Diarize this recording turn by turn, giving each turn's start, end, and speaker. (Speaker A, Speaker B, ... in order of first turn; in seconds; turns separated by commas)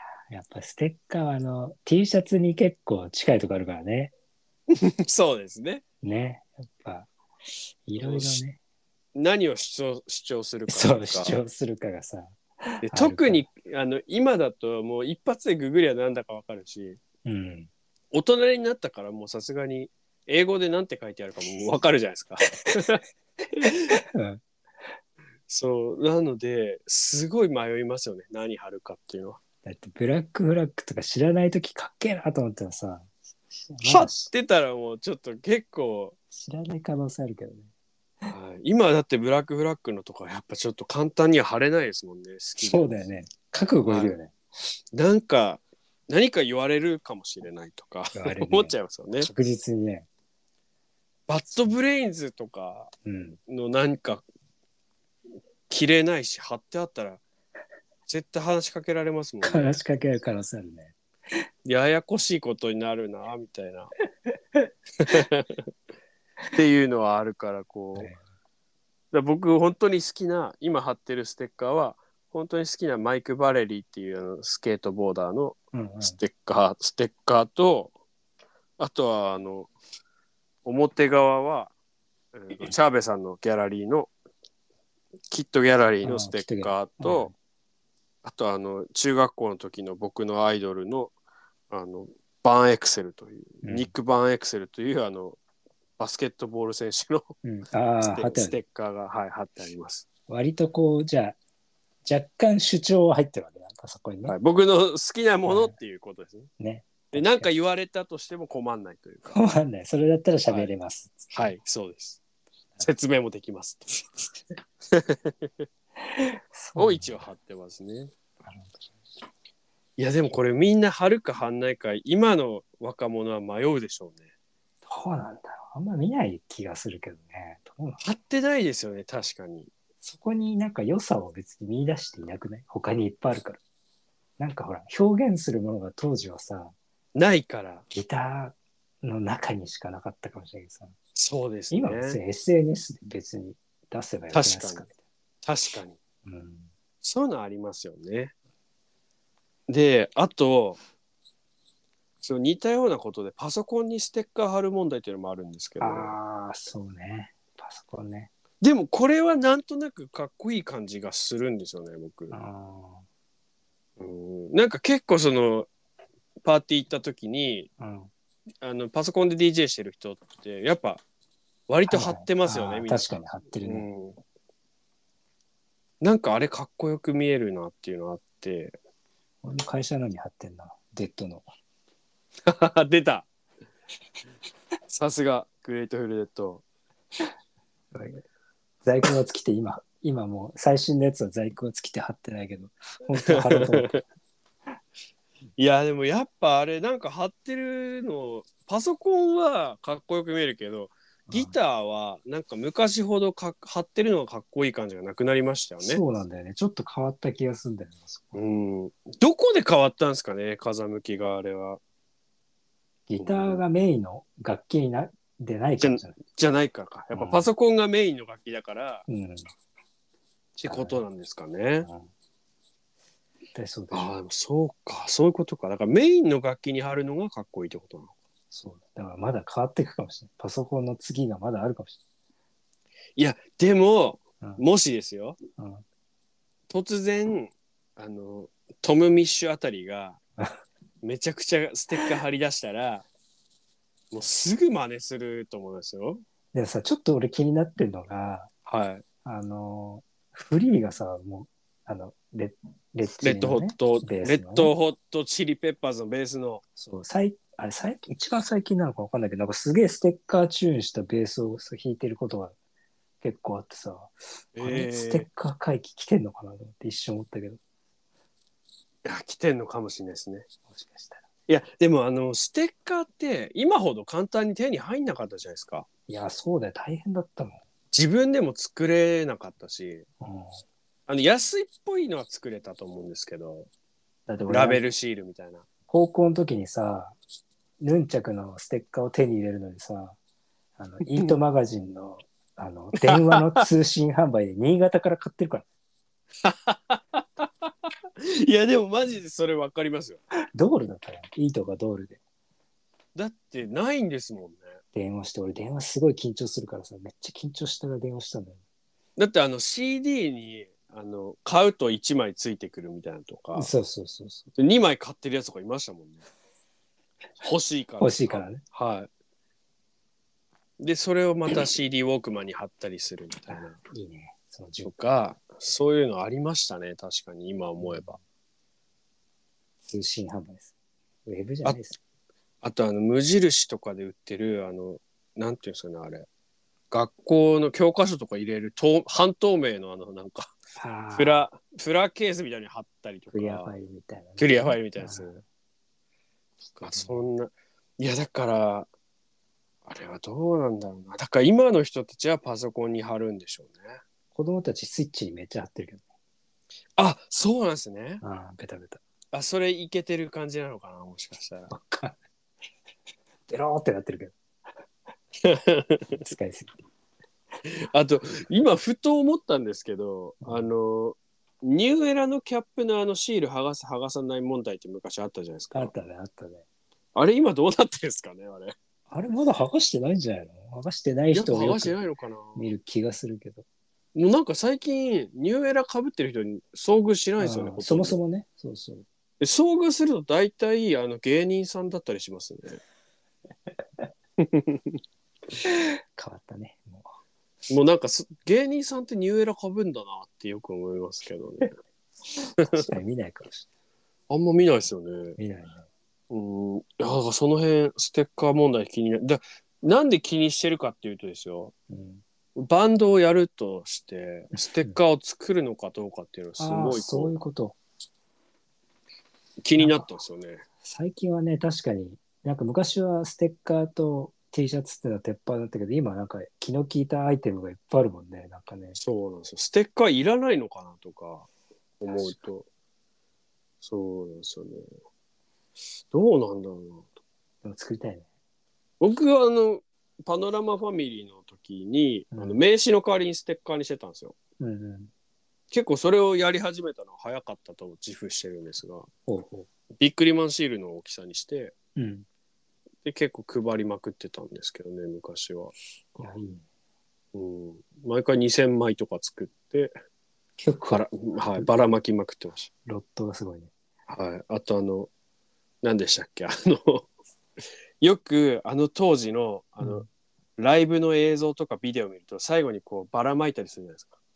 Speaker A: 0.3-4.1, Speaker B: 4.7-5.8, Speaker A: 6.0-7.1, Speaker A: 7.8-8.6, Speaker B: 8.0-8.4, Speaker B: 9.1-11.4, Speaker A: 10.7-13.4, Speaker B: 12.8-17.0, Speaker A: 17.2-17.7, Speaker B: 18.1-23.0, Speaker A: 23.6-24.4, Speaker B: 25.5-29.4, Speaker A: 29.6-34.3, Speaker B: 33.8-36.1, Speaker A: 36.3-37.7, Speaker B: 38.3-43.1, Speaker A: 42.6-44.4, Speaker B: 43.9-44.2, Speaker B: 44.9-49.3, Speaker A: 48.1-50.1, Speaker B: 51.3-52.9, Speaker A: 53.0-53.4, Speaker B: 53.5-54.2, Speaker B: 55.7-57.2, Speaker B: 58.1-59.8, Speaker A: 59.4-60.9, Speaker B: 61.6-63.9, Speaker B: 65.0-65.6, Speaker B: 66.5-68.1, Speaker B: 69.1-77.9, Speaker A: 75.7-76.2, Speaker B: 78.8-79.7, Speaker B: 80.6-81.7, Speaker B: 82.3-84.1, Speaker B: 85.3-87.3, Speaker A: 86.0-87.3, Speaker B: 88.2-91.1, Speaker B: 91.7-95.4, Speaker A: 93.6-93.9, Speaker B: 96.0-97.3, Speaker A: 97.4-98.6, Speaker B: 98.0-100.0, Speaker A: 100.3-101.4, Speaker A: 102.0-104.3, Speaker B: 104.3-106.5, Speaker A: 105.5-105.8, Speaker A: 106.6-107.5, Speaker B: 107.1-109.4, Speaker A: 109.3-111.5, Speaker B: 111.3-112.2, Speaker B: 112.8-114.3, Speaker B: 114.9-115.5, Speaker A: 116.2-117.3, Speaker B: 116.8-118.1, Speaker A: 118.4-118.9, Speaker B: 120.0-124.3, Speaker A: 124.8-128.0, Speaker B: 128.0-129.7, Speaker A: 130.0-133.6, Speaker A: 134.4-136.7, Speaker B: 137.1-137.8, Speaker A: 137.9-140.9, Speaker B: 141.1-142.2, Speaker A: 141.7-145.0, Speaker B: 144.3-144.8, Speaker B: 145.4-146.0, Speaker A: 146.2-146.7, Speaker B: 147.0-148.3, Speaker B: 149.7-150.8, Speaker B: 152.2-156.2, Speaker A: 155.8-158.3, Speaker B: 158.6-162.3, Speaker A: 162.3-163.0, Speaker B: 164.0-165.7, Speaker B: 166.4-167.7, Speaker A: 167.8-168.1, Speaker B: 168.6-171.0, Speaker B: 171.7-174.2, Speaker A: 171.9-173.9, Speaker B: 176.0-178.8, Speaker A: 179.4-181.5, Speaker B: 182.4-183.2, Speaker B: 184.9-186.6, Speaker A: 187.9-188.2, Speaker A: 188.8-194.0, Speaker B: 193.3-194.0, Speaker B: 195.6-206.0, Speaker A: 201.3-201.5, Speaker A: 205.8-208.4, Speaker B: 208.3-211.8, Speaker A: 213.1-216.2, Speaker B: 213.2-213.6, Speaker B: 215.8-219.0, Speaker A: 217.1-217.5, Speaker A: 219.1-219.4, Speaker A: 220.6-221.0, Speaker B: 220.6-221.9, Speaker A: 221.8-222.1, Speaker A: 223.5-224.1, Speaker B: 223.9-228.1, Speaker A: 228.5-232.0, Speaker B: 233.2-235.4, Speaker A: 235.6-235.8, Speaker B: 236.7-240.2, Speaker B: 241.0-243.1, Speaker B: 244.1-246.2, Speaker A: 246.5-248.5, Speaker B: 248.7-249.0, Speaker A: 249.2-254.7, Speaker B: 253.2-256.6, Speaker A: 256.8-262.6, Speaker A: 263.2-267.6, Speaker B: 264.6-265.3, Speaker B: 269.0-270.4, Speaker A: 270.7-271.2, Speaker B: 271.5-275.9, Speaker A: 276.1-277.6, Speaker B: 277.9-280.1, Speaker A: 280.2-280.6, Speaker B: 281.1-283.7, Speaker A: 284.3-284.8, Speaker B: 284.5-285.6, Speaker A: 285.9-287.2, Speaker A: 287.8-290.2, Speaker A: 290.8-295.7, Speaker B: 293.0-293.7, Speaker B: 296.4-297.9, Speaker B: 298.4-300.2, Speaker A: 300.6-302.2, Speaker B: 303.1-304.8, Speaker A: 304.9-308.6, Speaker B: 309.2-313.7, Speaker A: 313.5-314.5, Speaker B: 314.6-316.2, Speaker B: 317.4-319.1, Speaker A: 318.0-318.6, Speaker B: 320.8-323.8, Speaker A: 323.5-324.9, Speaker B: 324.8-328.2, Speaker A: 327.8-328.2, Speaker A: 329.8-330.7, Speaker A: 331.2-332.0, Speaker B: 332.6-336.3, Speaker B: 336.9-340.5, Speaker A: 340.8-341.5, Speaker B: 341.1-343.7, Speaker A: 343.3-345.4, Speaker B: 344.4-345.4, Speaker A: 346.6-347.3, Speaker B: 346.8-348.9, Speaker B: 349.9-354.0, Speaker A: 354.3-356.1, Speaker B: 357.0-358.2, Speaker A: 358.2-359.0, Speaker B: 359.3-361.7, Speaker A: 361.7-362.2, Speaker A: 363.5-364.4, Speaker B: 365.4-366.2, Speaker A: 366.1-366.8, Speaker B: 367.9-375.9, Speaker A: 370.4-370.7, Speaker A: 375.7-376.6, Speaker B: 377.1-378.7, Speaker A: 379.1-382.0, Speaker B: 381.3-382.7, Speaker A: 382.6-383.6, Speaker B: 384.1-388.2, Speaker A: 387.4-389.0, Speaker B: 389.4-392.8, Speaker B: 394.4-395.0, Speaker A: 395.6-397.1, Speaker B: 397.7-401.7, Speaker A: 402.4-403.7, Speaker B: 404.3-405.4, Speaker A: 405.4-405.9, Speaker B: 406.3-411.7, Speaker A: 411.9-412.2, Speaker B: 412.6-417.3, Speaker A: 414.6-415.0, Speaker A: 416.6-417.8, Speaker B: 419.6-420.6, Speaker A: 419.8-420.1, Speaker A: 420.8-429.0, Speaker B: 429.0-431.5, Speaker B: 432.0-432.7, Speaker A: 432.1-432.4, Speaker B: 433.8-434.9, Speaker B: 436.1-437.1, Speaker A: 437.6-438.3, Speaker B: 439.0-444.4, Speaker A: 442.3-442.6, Speaker A: 444.6-445.1, Speaker B: 445.7-449.1, Speaker A: 449.3-449.7, Speaker B: 450.0-451.7, Speaker A: 451.9-452.2, Speaker B: 453.0-455.7, Speaker A: 456.1-456.6, Speaker B: 457.3-459.9, Speaker A: 460.6-461.7, Speaker B: 460.9-462.7, Speaker A: 462.9-463.7, Speaker B: 464.1-465.1, Speaker B: 465.8-467.1, Speaker B: 468.0-470.1, Speaker A: 469.8-470.1, Speaker B: 470.6-474.2